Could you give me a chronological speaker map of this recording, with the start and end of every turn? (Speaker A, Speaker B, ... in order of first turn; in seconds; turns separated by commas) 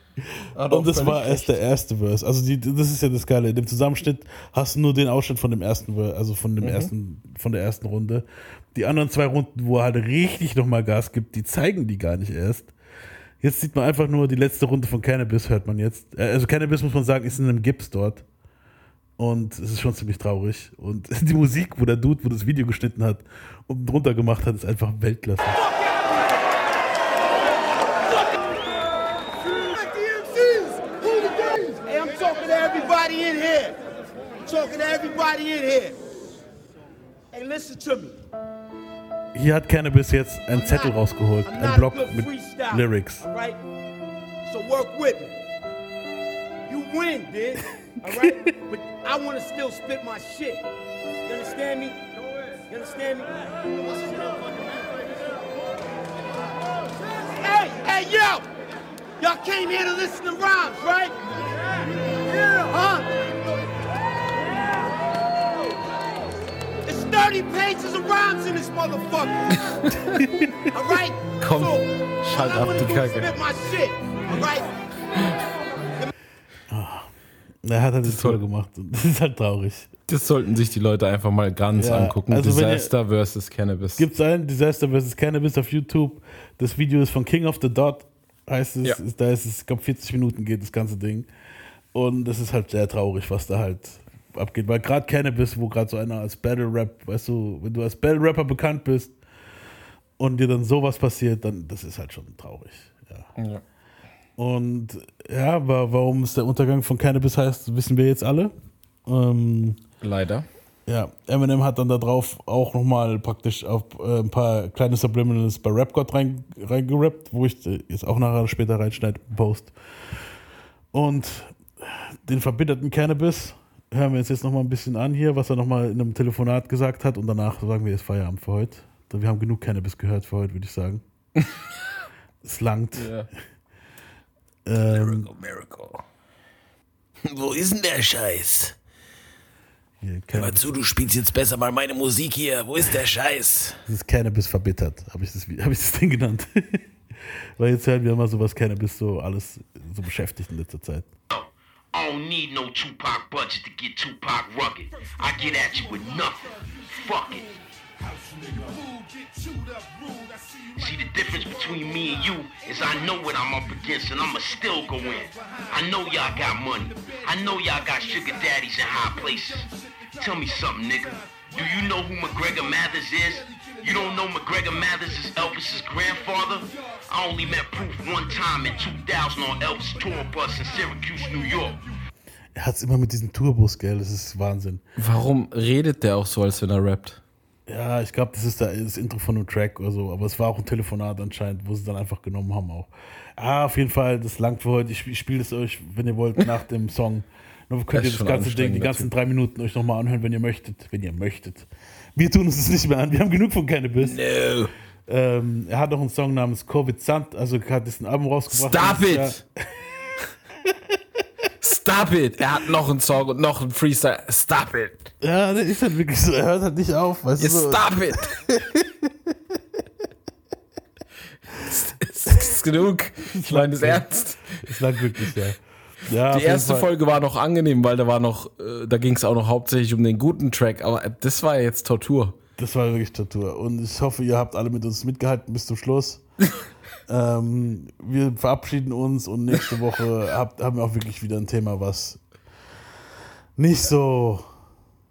Speaker A: 0.6-1.6, Speaker B: 0.7-12.7, Speaker A: 6.6-6.9, Speaker B: 13.4-18.2, Speaker B: 19.2-25.6, Speaker C: 29.6-33.8, Speaker C: 34.5-36.0, Speaker C: 37.3-38.1, Speaker B: 39.4-43.3, Speaker C: 40.5-41.0, Speaker C: 41.5-43.6, Speaker C: 44.5-45.4, Speaker C: 46.7-50.6, Speaker B: 48.0-48.5, Speaker C: 51.3-52.0, Speaker C: 52.7-54.7, Speaker C: 57.3-58.5, Speaker C: 59.2-61.1, Speaker C: 62.4-63.3, Speaker C: 66.9-69.6, Speaker B: 70.1-70.5, Speaker C: 70.7-74.7, Speaker A: 71.4-73.3, Speaker B: 76.7-77.1, Speaker B: 77.7-79.9, Speaker A: 78.0-78.4, Speaker A: 80.1-84.0, Speaker B: 81.8-82.9, Speaker B: 84.0-91.3, Speaker B: 91.9-99.1, Speaker B: 100.2-103.3, Speaker A: 103.4-103.6, Speaker B: 104.4-108.5, Speaker B: 109.1-109.8, Speaker A: 110.0-110.5, Speaker B: 110.9-119.7, Speaker B: 120.9-131.0, Speaker B: 132.4-133.1, Speaker A: 132.9-133.3, Speaker B: 134.7-135.3, Speaker D: 134.9-136.0, Speaker D: 137.3-138.8, Speaker B: 140.0-140.7, Speaker D: 140.3-143.8, Speaker B: 143.8-146.8, Speaker B: 147.6-151.1, Speaker E: 151.3-157.5, Speaker C: 158.5-159.7, Speaker E: 160.8-181.8, Speaker C: 166.0-166.3, Speaker C: 167.1-168.4, Speaker B: 182.6-184.8, Speaker A: 185.0-187.2, Speaker B: 187.7-204.2, Speaker A: 197.9-199.1, Speaker D: 204.0-204.7, Speaker B: 205.1-209.4, Speaker A: 208.5-209.4, Speaker A: 211.6-215.0, Speaker B: 215.2-218.9, Speaker A: 217.4-218.3, Speaker A: 221.7-224.7, Speaker B: 223.4-224.1, Speaker B: 224.6-226.9, Speaker A: 226.3-232.4, Speaker B: 232.6-236.2, Speaker B: 237.1-242.2, Speaker B: 243.6-244.5